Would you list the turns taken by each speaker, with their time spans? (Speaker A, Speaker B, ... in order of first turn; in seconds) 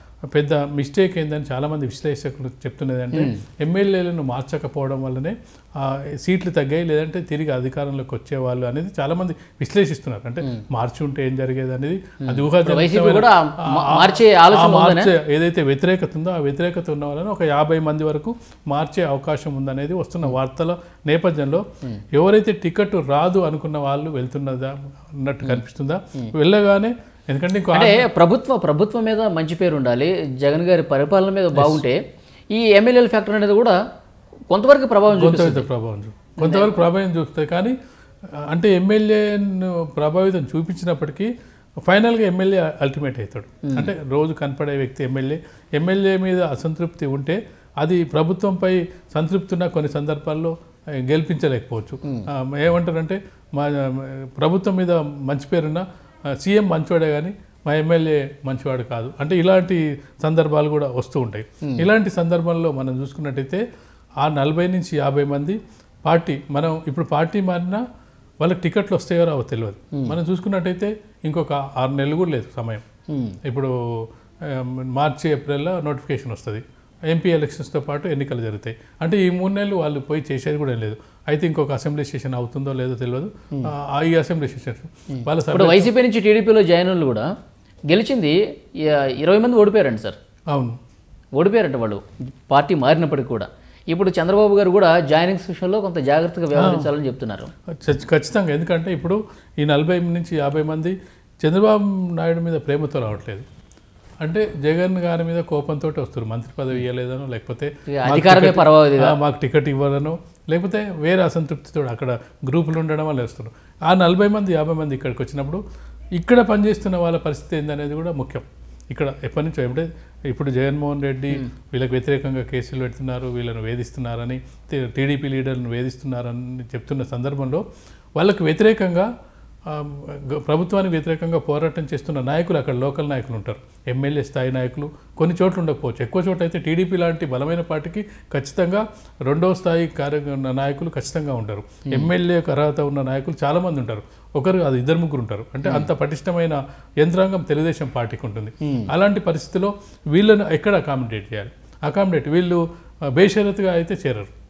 Speaker A: 0.3-28.0, 31.6-31.8, 35.1-37.7, 38.3-41.3, 41.9-50.5, 51.1-55.8, 56.4-63.6, 64.2-67.8, 68.4-72.8, 73.4-85.9, 90.5-90.8, 96.5-96.9, 97.8-103.4, 104.2-115.6, 116.2-127.6, 128.2-129.1, 129.7-152.6, 153.1-154.3
Speaker B: 3.1-3.4, 12.2-15.1, 27.7-32.0, 32.5-33.8, 34.5-35.7, 36.4-36.7, 43.6-43.9, 73.1-73.4, 85.1-87.3, 87.9-90.2, 91.3-97.5, 107.9-109.2, 148.6-148.9